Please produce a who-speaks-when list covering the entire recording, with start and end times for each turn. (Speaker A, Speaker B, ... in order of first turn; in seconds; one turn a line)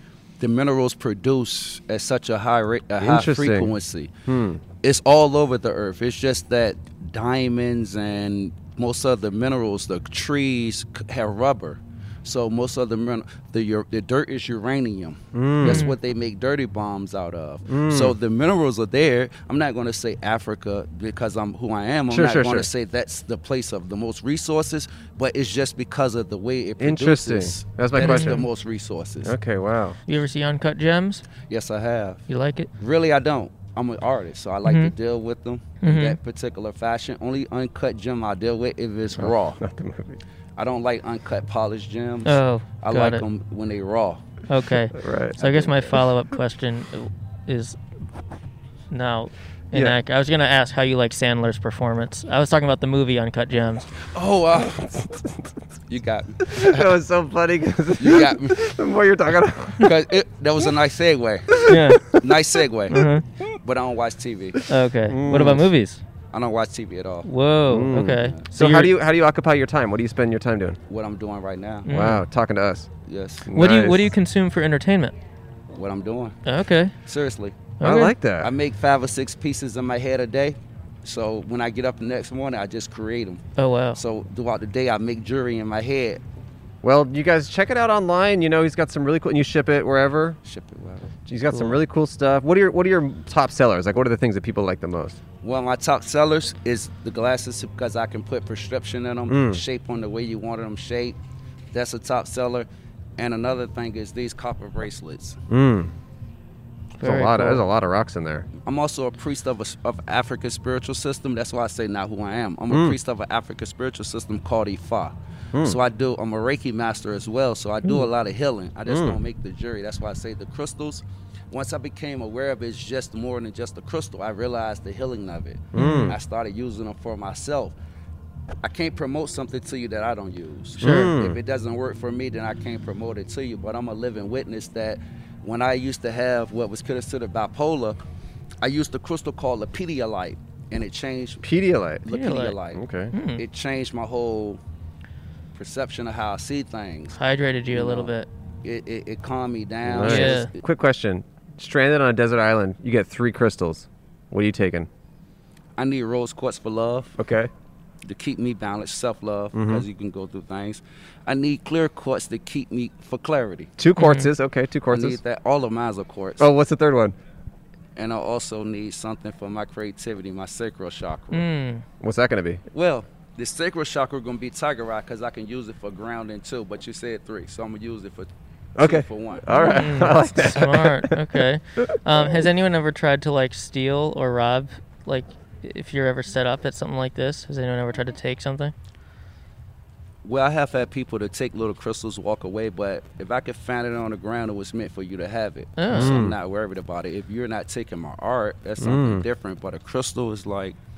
Speaker A: 0.4-4.1
Speaker B: 3.0-3.7
Speaker B: 4.3-4.6
Speaker A: 4.7-29.4
Speaker B: 15.3-15.9
Speaker C: 15.6-16.0
Speaker B: 17.7-18.1
Speaker B: 22.1-22.7
Speaker B: 26.8-28.5
Speaker C: 28.0-28.4
Speaker B: 29.2-30.0
Speaker C: 30.1-31.2
Speaker A: 31.5-32.2
Speaker C: 32.3-32.7
Speaker A: 32.8-39.6
Speaker C: 34.6-34.9
Speaker C: 35.8-36.2
Speaker B: 39.2-40.2
Speaker A: 40.6-44.2
Speaker C: 42.2-43.2
Speaker C: 44.5-47.8
Speaker B: 44.9-45.5
Speaker A: 45.4-45.8
Speaker C: 48.9-53.9
Speaker B: 49.7-50.0
Speaker A: 54.1-54.7
Speaker B: 54.5-55.5
Speaker A: 55.9-56.9
Speaker B: 56.4-60.0
Speaker A: 58.0-58.6
Speaker A: 59.8-64.6
Speaker B: 61.5-62.3
Speaker C: 61.6-62.2
Speaker C: 62.9-63.2
Speaker B: 64.6-65.7
Speaker C: 64.7-66.0
Speaker A: 66.3-67.3
Speaker C: 67.2-68.9
Speaker B: 67.7-70.8
Speaker A: 68.2-68.5
Speaker A: 70.9-71.9
Speaker C: 71.8-72.3
Speaker B: 71.9-72.9
Speaker A: 73.0-73.5
Speaker B: 73.5-74.1
Speaker C: 73.5-75.2
Speaker A: 75.7-76.4
Speaker C: 76.5-76.9
Speaker A: 77.0-77.8
Speaker C: 77.8-78.2
Speaker B: 77.8-78.5
Speaker A: 78.4-83.4
Speaker C: 83.6-84.0
Speaker A: 84.0-86.2
Speaker B: 86.8-90.4
Speaker A: 90.5-91.1
Speaker B: 91.3-95.2
Speaker C: 91.5-91.8
Speaker A: 95.4-101.2
Speaker B: 99.3-99.6
Speaker A: 101.7-105.4
Speaker B: 105.5-105.9
Speaker C: 107.0-107.7
Speaker B: 107.0-108.5
Speaker A: 108.6-127.8
Speaker B: 112.7-113.0
Speaker B: 118.9-119.2
Speaker B: 125.7-126.2
Speaker C: 125.8-126.2
Speaker A: 128.6-138.0
Speaker B: 130.8-131.4
Speaker C: 130.8-131.1
Speaker A: 138.6-141.5
Speaker B: 141.4-142.1
Speaker A: 142.0-144.6
Speaker C: 142.1-142.6
Speaker B: 142.7-143.1
Speaker C: 143.1-143.4
Speaker A: 145.6-147.2
Speaker C: 147.2-148.3
Speaker A: 147.7-148.1
Speaker A: 148.6-150.6
Speaker B: 149.8-154.9
Speaker C: 150.0-150.5
Speaker A: 155.8-157.2
Speaker B: 157.2-157.5
Speaker A: 158.0-163.7
Speaker B: 159.5-159.8
Speaker B: 163.8-165.2
Speaker C: 164.0-164.3
Speaker A: 164.9-166.5
Speaker B: 166.4-167.2
Speaker A: 168.0-171.5
Speaker C: 171.3-171.8
Speaker B: 172.0-172.6
Speaker A: 172.7-179.8
Speaker B: 178.8-181.2
Speaker C: 179.5-188.7
Speaker A: 190.2-200.8
Speaker C: 195.8-196.2
Speaker B: 195.9-196.4
Speaker B: 198.8-199.2